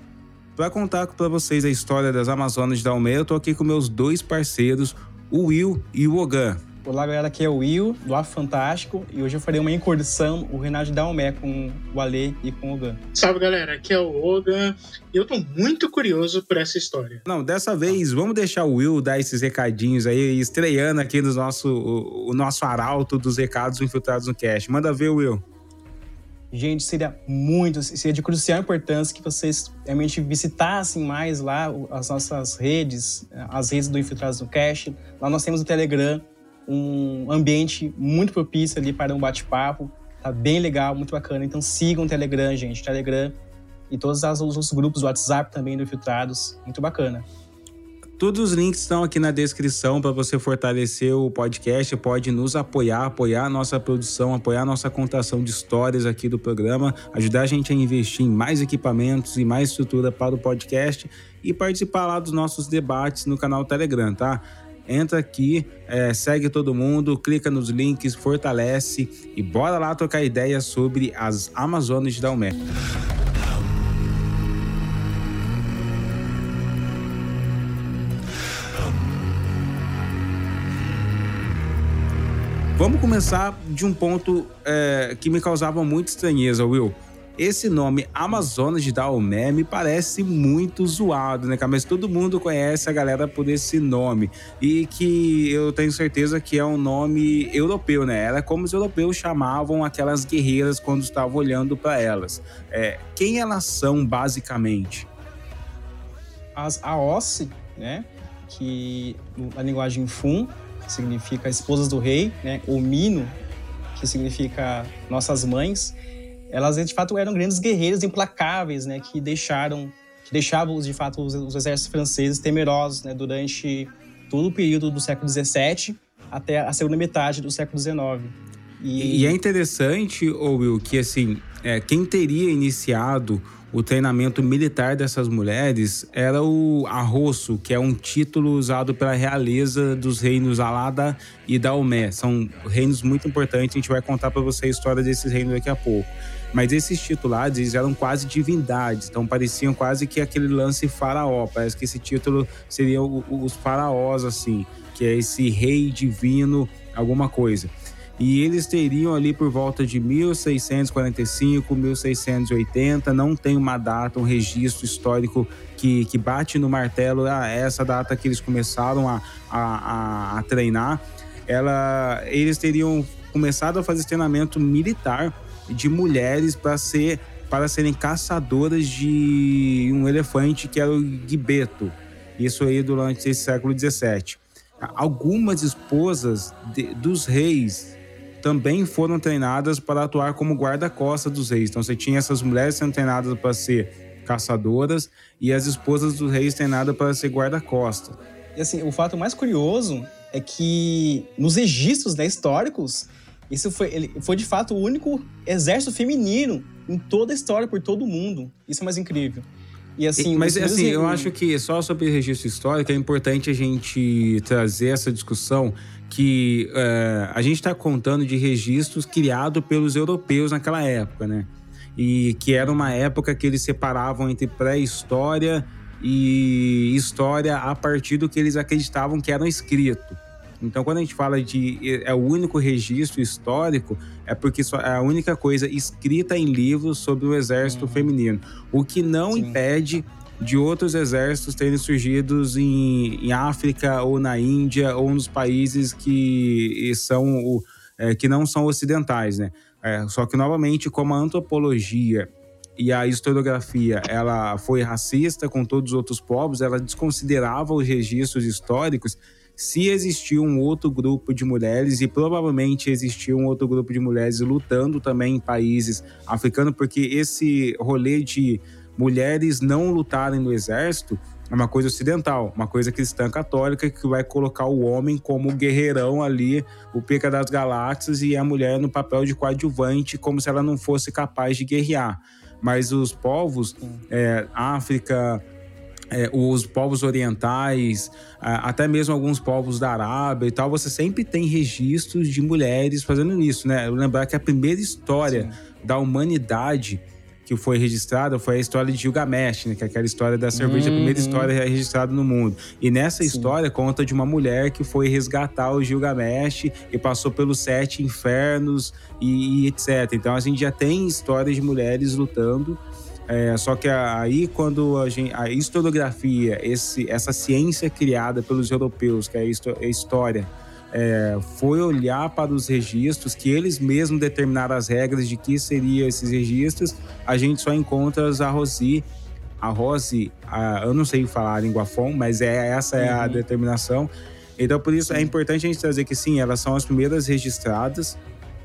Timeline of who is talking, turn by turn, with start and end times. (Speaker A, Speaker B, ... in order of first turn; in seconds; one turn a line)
Speaker A: 0.6-6.6
Speaker B: 6.8-13.0
Speaker C: 13.1-17.2
Speaker A: 17.2-25.4
Speaker B: 26.5-43.4
Speaker B: 43.9-47.3
Speaker A: 48.2-72.6
Speaker A: 82.8-105.1
Speaker B: 106.5-113.4
Speaker B: 113.9-116.0
Speaker B: 116.5-129.4
Speaker A: 129.0-198.2
Speaker B: 198.6-211.3
Speaker A: 210.2-285.4
Speaker B: 222.6-223.0
Speaker B: 237.6-238.1
Speaker B: 239.3-239.6
Speaker A: 286.1-329.1
Speaker B: 295.2-295.6
Speaker B: 300.5-301.5
Speaker B: 303.2-303.5
Speaker A: 329.6-338.2
Speaker B: 333.0-333.4
Speaker B: 335.1-335.3